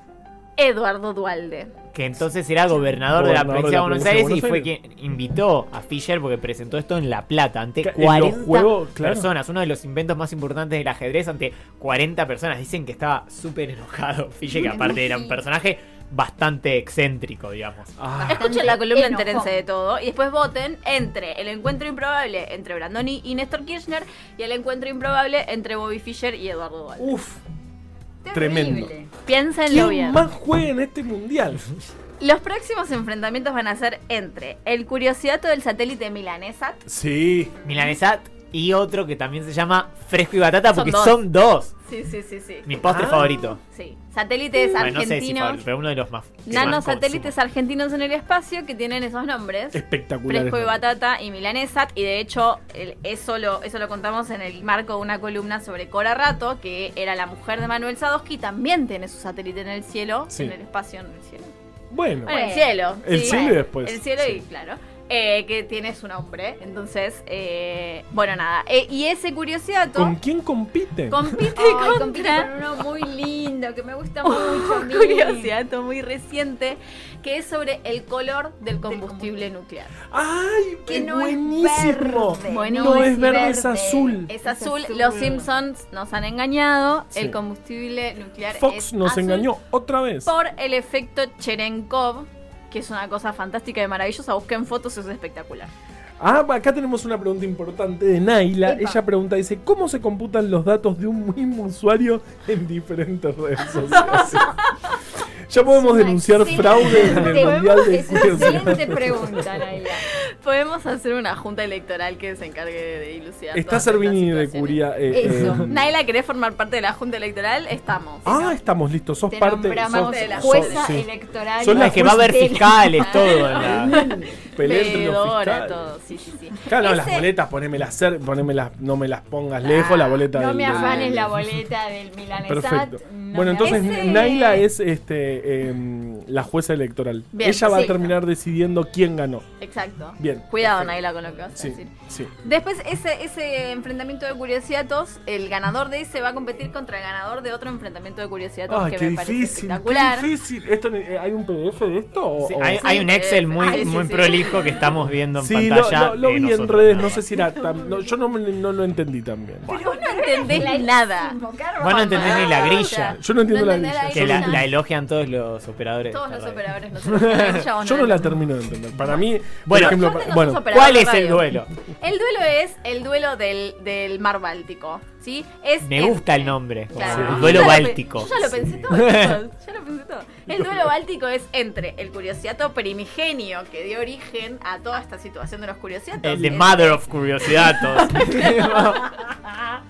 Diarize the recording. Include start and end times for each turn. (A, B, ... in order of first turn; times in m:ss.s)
0:00.6-0:01.7 A
0:01.9-0:17.9 B
0:03.1-0:04.7 C
0:07.8-0:09.3 C
0:14.5-0:15.4 D
0:18.0-0:18.6 C
0:18.2-0:19.5 D
0:18.2-0:27.1 A
0:27.0-0:27.4 C
0:28.2-0:29.1 D
0:28.3-0:28.9 C
0:29.2-0:30.2 A
0:29.7-0:31.7 C
0:32.2-0:36.8 A
0:36.8-0:37.5 C
0:37.6-0:41.7 B
0:40.7-0:41.2 A
0:41.8-0:42.7 A
0:42.6-0:43.6 B
0:42.8-0:43.4 C
0:43.6-0:45.6 A
0:44.8-0:47.3 B
0:46.4-1:01.5 A
0:46.5-0:46.8 C
0:49.7-0:50.8 C
1:00.3-1:00.5 C
1:01.9-1:02.4 C
1:02.2-1:10.2 A
1:02.2-1:03.4 D
1:03.0-1:04.4 C
1:09.9-1:11.3 C
1:11.1-1:12.5 A
1:11.5-1:15.5 D
1:14.2-1:19.9 A
1:18.9-1:19.4 D
1:20.1-1:24.3 C
1:20.8-1:25.5 D
1:22.5-1:23.6 A
1:24.3-1:29.5 A
1:28.5-1:30.3 C
1:30.2-1:35.7 A
1:36.2-1:44.6 C
1:38.6-1:39.0 D
1:43.9-1:44.7 D
1:45.5-1:49.6 C
1:45.6-1:50.0 D
1:47.2-1:48.7 A
1:50.1-1:54.8 A
1:53.5-1:55.8 C
1:55.1-1:55.8 D
1:55.6-1:58.6 A
1:58.2-2:01.1 C
1:59.3-2:04.3 D
1:59.8-2:00.9 A
2:01.6-2:02.4 C
2:01.7-2:03.9 B
2:03.5-2:05.8 C
2:03.9-2:07.3 A
2:06.6-2:11.5 C
2:09.6-2:11.2 A
2:10.3-2:14.6 D
2:12.5-2:19.4 C
2:13.6-2:14.6 A
2:17.3-2:18.1 A
2:17.6-2:18.0 D
2:19.6-2:21.9 A
2:20.2-2:21.0 C
2:21.6-2:22.3 C
2:22.4-2:30.3 A
2:28.7-2:32.9 C
2:32.4-2:37.2 B
2:32.8-2:34.8 A
2:33.6-2:34.8 D
2:35.4-2:39.7 C
2:39.7-2:42.9 D
2:39.7-2:44.6 A
2:41.8-2:43.2 B
2:43.1-2:44.6 C
2:44.1-2:47.6 B
2:46.1-2:48.3 A
2:47.8-2:50.7 C
2:49.7-2:50.0 B
2:49.7-3:09.2 A
2:50.7-2:51.7 B
2:55.8-2:58.3 B
2:57.0-2:58.9 C
2:58.9-2:59.4 B
3:00.5-3:00.8 C
3:06.2-3:09.7 B